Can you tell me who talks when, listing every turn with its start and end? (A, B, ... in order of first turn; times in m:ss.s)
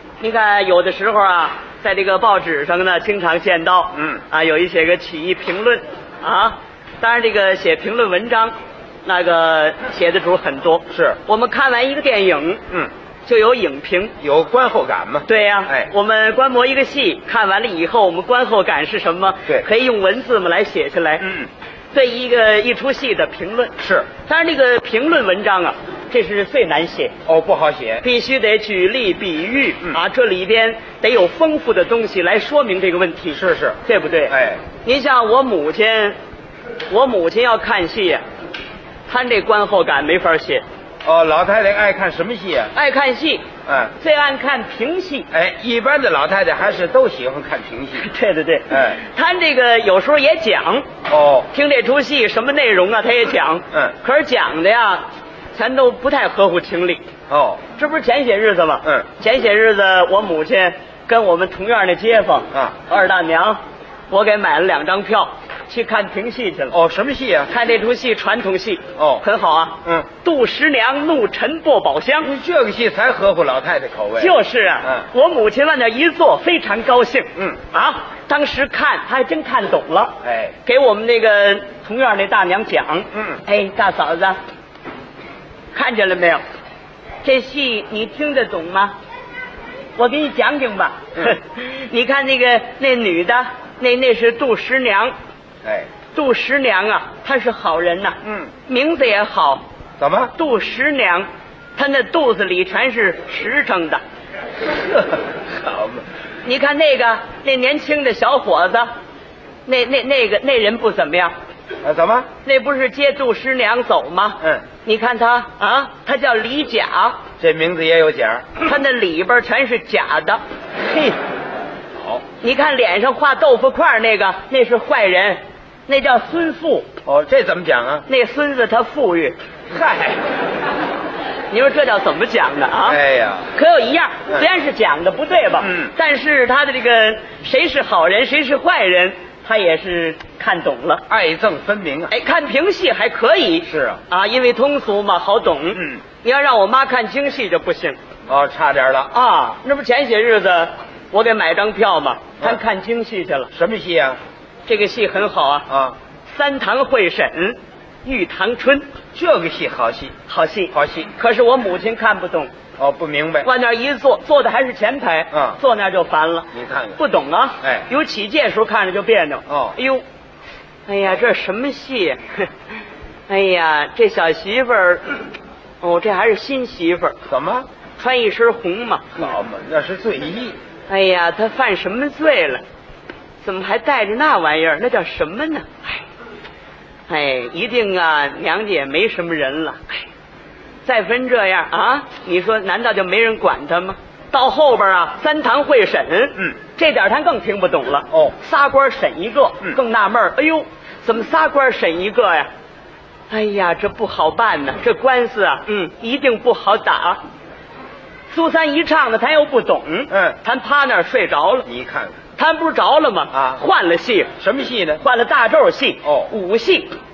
0:00.2-0:12.6 A
0:03.9-0:04.2 B
0:10.9-0:11.2 B
0:13.2-0:14.1 A
0:14.2-0:15.9 B
0:15.3-0:21.3 A
0:21.2-0:21.5 B
0:21.9-0:27.1 A
0:23.8-0:24.1 B
0:27.2-0:28.0 B
0:28.0-0:36.2 A
0:33.3-0:34.6 B
0:36.9-0:38.2 A
0:39.1-0:40.6 A
0:41.0-0:42.7 B
0:42.7-0:43.5 A
0:43.6-0:43.9 B
0:44.0-0:45.3 A
0:45.3-0:48.1 B
0:48.0-0:50.9 A
0:48.7-0:49.0 B
0:51.1-0:51.5 B
0:51.5-0:57.0 A
0:57.3-0:57.6 B
0:57.7-1:06.8 A
1:06.7-1:07.5 B
1:07.5-1:12.3 A
1:09.0-1:09.2 B
1:12.2-1:15.0 B
1:14.2-1:24.4 A
1:20.2-1:20.5 B
1:23.1-1:23.4 B
1:25.7-1:26.4 A
1:27.2-1:28.9 A
1:30.0-1:35.1 A
1:35.6-1:35.9 B
1:36.1-1:39.6 A
1:38.2-1:38.5 B
1:40.0-1:40.3 B
1:40.3-1:44.0 A
1:44.6-1:46.0 B
1:46.4-1:48.9 A
1:49.6-1:51.3 A
1:51.8-1:52.3 B
1:52.4-1:57.2 A
1:57.4-1:58.6 B
1:58.6-2:01.2 A
2:02.4-2:06.9 A
2:07.0-2:08.0 B
2:08.1-2:09.4 A
2:09.7-2:10.2 B
2:11.5-2:13.0 A
2:12.8-2:13.5 B
2:13.5-2:21.0 A
2:15.6-2:15.9 B
2:21.1-2:22.1 B
2:22.1-2:28.0 A
2:23.7-2:24.0 B
2:25.8-2:26.0 B
2:28.3-2:29.1 B
2:29.1-2:33.5 A
2:33.5-2:34.2 B
2:34.7-2:35.7 A
2:35.7-2:36.0 B
2:36.2-2:38.9 A
2:39.1-2:40.2 B
2:40.3-2:42.5 A
2:40.7-2:41.1 B
2:42.8-2:43.5 B
2:43.4-2:50.0 A
2:45.3-2:45.6 B
2:46.5-2:47.0 B
2:49.5-2:49.8 B
2:50.9-2:52.5 A
2:53.3-2:55.2 A
2:55.8-2:57.2 A
2:57.2-2:57.7 B
2:58.0-2:59.2 A
2:59.1-3:00.6 B
3:00.9-3:02.6 A
3:03.4-3:06.0 A
3:07.1-3:10.0 A
3:10.8-3:22.5 A
3:23.3-3:27.2 A
3:28.3-3:31.7 A
3:30.1-3:30.4 B
3:31.6-3:32.2 B
3:32.4-3:34.3 A
3:33.3-3:33.6 B
3:34.4-3:35.0 B
3:35.0-3:36.9 A
3:36.0-3:36.3 B